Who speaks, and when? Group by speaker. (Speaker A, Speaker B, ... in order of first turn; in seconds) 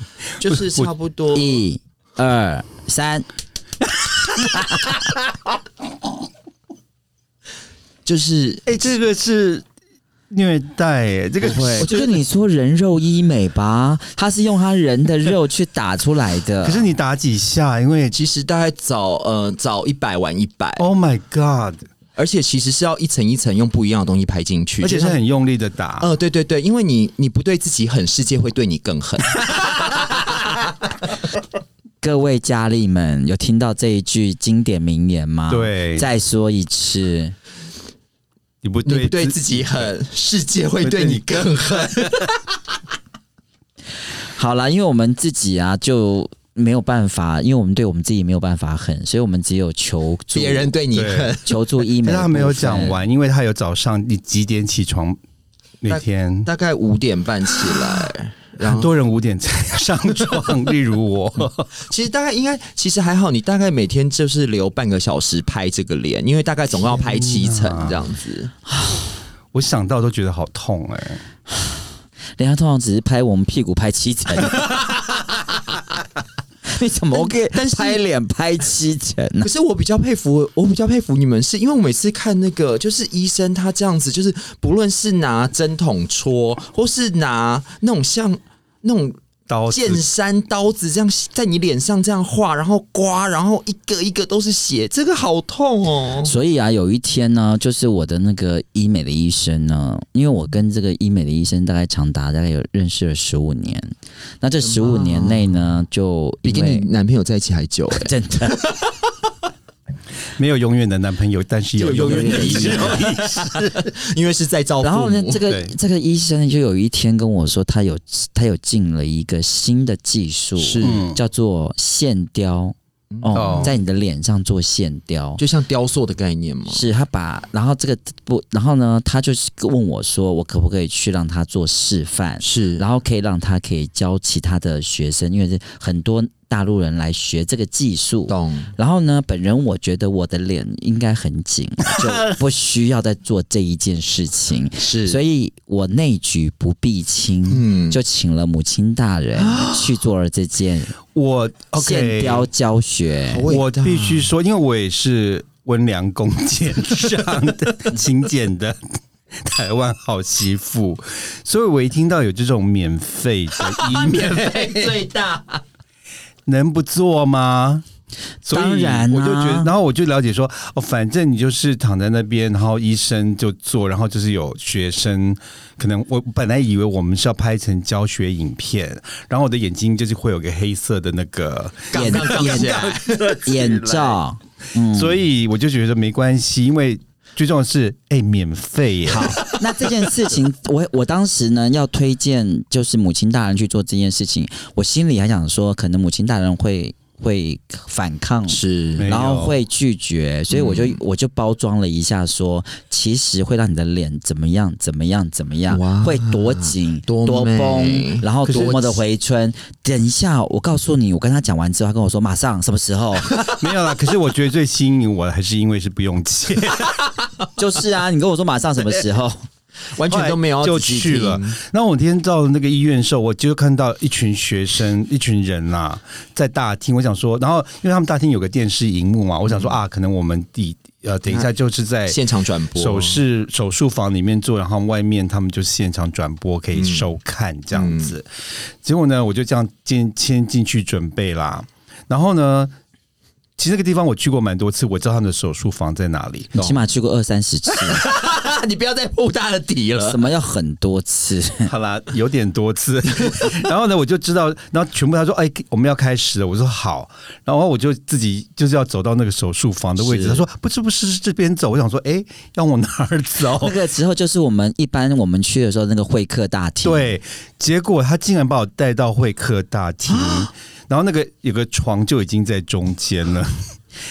Speaker A: 0.4-1.6, 8.0-8.9, 11.4-11.9, 18.1-20.9, 22.1-25.2, 26.0-30.5, 38.8-42.6, 50.3-51.6, 55.9-58.9, 61.8-68.5, 77.1-78.0, 79.4-96.3, 104.6-105.5, 106.4-108.9, 111.8-115.4, 120.6-121.1, 123.1-123.8, 125.4-126.8, 132.4-132.8, 138.3-138.7, 144.8-145.2, 147.5-148.0, 149.4-149.9, 153.3-154.3, 163.6-165.6, 181.9-184.1, 198.5-199.1, 200.5-201.0, 205.7-209.0, 219.9-221.6, 229.5-229.8, 232.1-233.2, 236.7-237.1, 237.7-238.2, 247.7-250.2, 260.0-260.4, 270.1-270.5
Speaker B: 0.4-0.9, 8.7-9.6, 10.3-12.0, 16.6-18.2, 20.8-21.9, 24.8-26.1, 35.5-36.1, 38.6-39.9, 40.8-42.2, 50.9-51.4, 52.0-55.2, 55.8-56.5, 58.6-61.8, 66.9-68.1, 69.5-71.2, 89.5-90.0, 110.4-113.9, 115.5-115.7, 120.8-121.2, 123.3-123.8, 151.1-152.5, 153.5-165.0, 166.4-167.8, 168.4-184.0, 184.9-189.5, 199.0-199.6, 208.5-208.8, 213.3-216.9, 220.1-232.2, 232.7-242.7, 243.6-246.5, 251.7-263.8, 266.8-273.7
Speaker C: 1.3-3.3, 11.6-16.9, 32.0-37.3, 44.3-50.7, 51.4-53.0, 68.7-69.0, 72.4-74.7, 76.7-79.5, 96.2-106.9, 107.9-108.6, 111.9-113.0, 114.8-125.4, 126.7-150.9, 151.8-153.4, 168.5-169.7, 181.9-185.2, 189.1-213.3, 217.6-219.4, 246.6-248.0, 250.0-251.7, 263.6-267.1